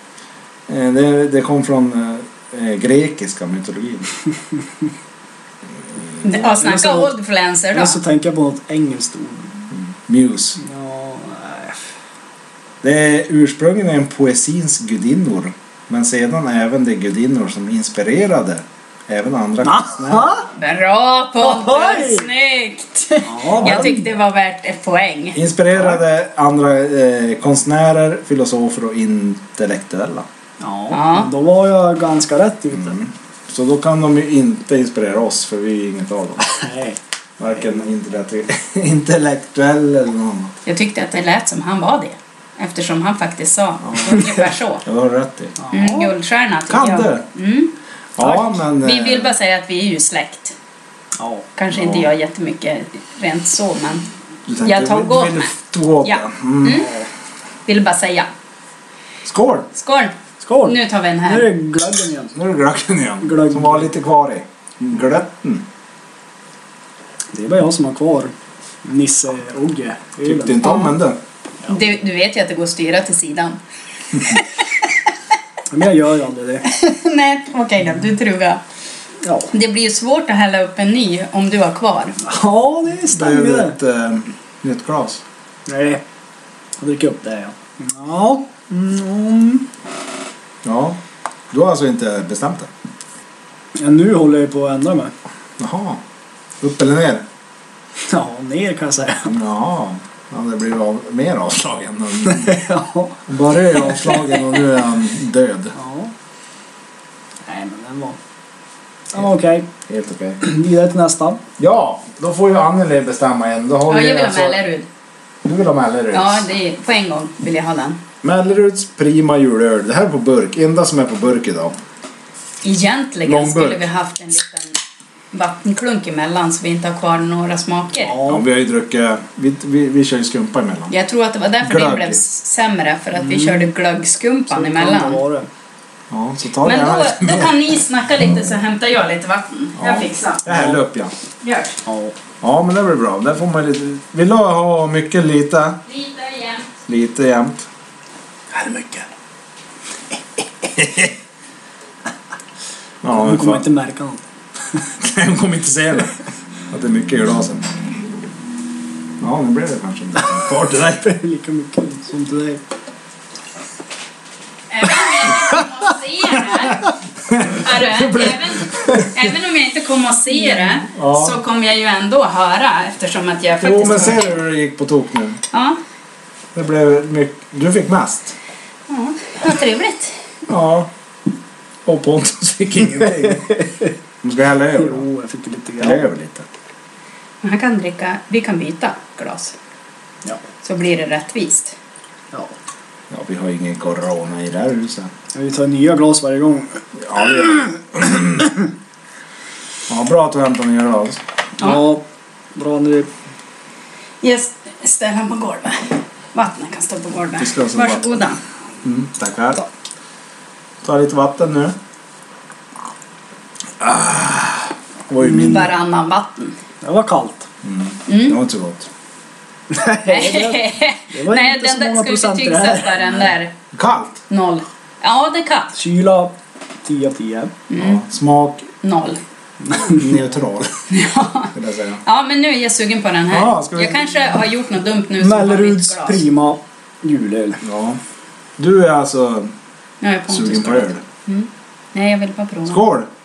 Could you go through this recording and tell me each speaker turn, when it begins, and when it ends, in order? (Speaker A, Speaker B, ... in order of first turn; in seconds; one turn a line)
Speaker A: 0.7-4.1
Speaker B: 6.2-8.0
Speaker C: 6.4-7.1
Speaker C: 7.7-9.6
Speaker A: 9.7-10.6
Speaker C: 10.6-11.9
Speaker A: 12.8-20.3
Speaker C: 19.6-20.5
Speaker B: 20.6-25.4
Speaker C: 21.4-22.3
Speaker C: 23.2-24.0
Speaker A: 23.6-23.9
Speaker A: 25.3-30.2
Speaker C: 30.6-33.0
Speaker B: 30.9-31.3
Speaker A: 32.7-36.4
Speaker C: 36.4-37.0
Speaker A: 37.4-40.5
Speaker B: 40.6-44.8
Speaker A: 43.9-44.2
Speaker A: 44.8-45.5
Speaker C: 45.6-46.1
Speaker B: 45.7-50.5
Speaker A: 46.7-47.2
Speaker A: 48.2-49.3
Speaker C: 51.2-51.5
Speaker B: 51.5-54.1
Speaker A: 51.7-52.1
Speaker A: 54.5-56.9
Speaker B: 54.6-55.5
Speaker B: 56.0-56.9
Speaker C: 56.8-57.1
Speaker B: 57.6-58.3
Speaker A: 59.2-59.7
Speaker B: 59.7-61.5
Speaker C: 60.4-62.3
Speaker A: 62.3-65.6
Speaker C: 63.2-63.9
Speaker C: 67.3-68.3
Speaker C: 68.8-70.8
Speaker A: 70.2-71.2
Speaker B: 70.6-70.9
Speaker B: 71.7-73.6
Speaker B: 74.2-74.9
Speaker C: 75.7-76.7
Speaker B: 76.7-78.6
Speaker C: 79.2-79.5
Speaker B: 79.5-82.2
Speaker C: 82.2-83.8
Speaker A: 83.1-85.2
Speaker C: 85.7-86.0
Speaker C: 86.8-89.7
Speaker A: 90.6-91.0
Speaker A: 91.5-92.7
Speaker C: 93.7-95.1
Speaker A: 95.6-96.0
Speaker A: 96.6-97.2
Speaker C: 98.1-99.3
Speaker A: 99.2-102.6
Speaker C: 102.2-103.3
Speaker A: 103.3-105.7
Speaker C: 105.7-106.1
Speaker C: 107.5-108.2
Speaker C: 109.1-109.7
Speaker A: 109.9-110.4
Speaker C: 110.4-111.4
Speaker A: 111.6-114.6
Speaker B: 113.9-114.8
Speaker A: 115.4-116.5
Speaker B: 116.1-118.0
Speaker A: 118.2-121.7
Speaker B: 122.6-124.8
Speaker A: 123.2-123.9
Speaker B: 125.3-128.2
Speaker C: 128.0-128.4
Speaker A: 128.2-130.9
Speaker B: 130.9-135.2
Speaker A: 131.6-132.2
Speaker C: 133.1-133.7
Speaker C: 134.5-135.5
Speaker A: 136.1-137.5
Speaker B: 136.6-140.4
Speaker A: 139.8-141.1
Speaker C: 140.4-140.8
Speaker B: 141.4-141.8
Speaker C: 141.8-142.1
Speaker A: 142.4-145.8
Speaker B: 145.9-146.7
Speaker A: 146.9-147.7
Speaker C: 148.5-149.1
Speaker A: 150.7-151.1
Speaker A: 153.0-153.6
Speaker C: 153.1-154.2
Speaker A: 155.0-156.2
Speaker A: 156.7-157.6
Speaker A: 159.2-161.1
Speaker C: 161.0-162.6
Speaker B: 164.7-166.9
Speaker A: 166.3-169.1
Speaker B: 167.5-174.4
Speaker A: 170.9-171.4
Speaker A: 173.6-175.4
Speaker B: 175.5-175.8
Speaker A: 176.5-178.3
Speaker B: 178.9-180.2
Speaker A: 180.5-180.9
Speaker A: 181.8-183.6
Speaker C: 183.2-183.9
Speaker A: 184.2-185.0
Speaker C: 184.7-186.1
Speaker A: 185.8-186.5
Speaker B: 187.4-189.5
Speaker B: 190.6-191.8
Speaker A: 193.1-195.1
Speaker C: 195.3-196.8
Speaker A: 197.0-198.5
Speaker A: 199.9-201.2
Speaker C: 201.6-203.1
Speaker B: 201.6-201.8
Speaker B: 204.2-208.4
Speaker A: 207.4-208.2
Speaker A: 208.8-209.6
Speaker A: 210.8-211.7
Speaker A: 213.8-215.7
Speaker C: 215.2-215.7
Speaker B: 215.3-216.6
Speaker C: 216.8-217.5
Speaker A: 217.6-218.9
Speaker B: 218.1-218.4
Speaker C: 219.7-223.3
Speaker B: 220.1-223.5
Speaker A: 223.7-224.2
Speaker B: 224.3-225.7
Speaker C: 225.7-227.5
Speaker B: 227.7-228.0
Speaker A: 227.8-228.7
Speaker B: 228.8-229.2
Speaker C: 229.6-230.1
Speaker A: 229.9-230.8
Speaker B: 230.9-231.5
Speaker A: 231.5-232.0
Speaker B: 232.0-236.2
Speaker A: 233.3-234.1
Speaker C: 235.2-237.6
Speaker A: 237.6-238.0
Speaker A: 238.6-239.5
Speaker B: 240.0-242.8
Speaker A: 240.3-241.0
Speaker A: 242.7-243.1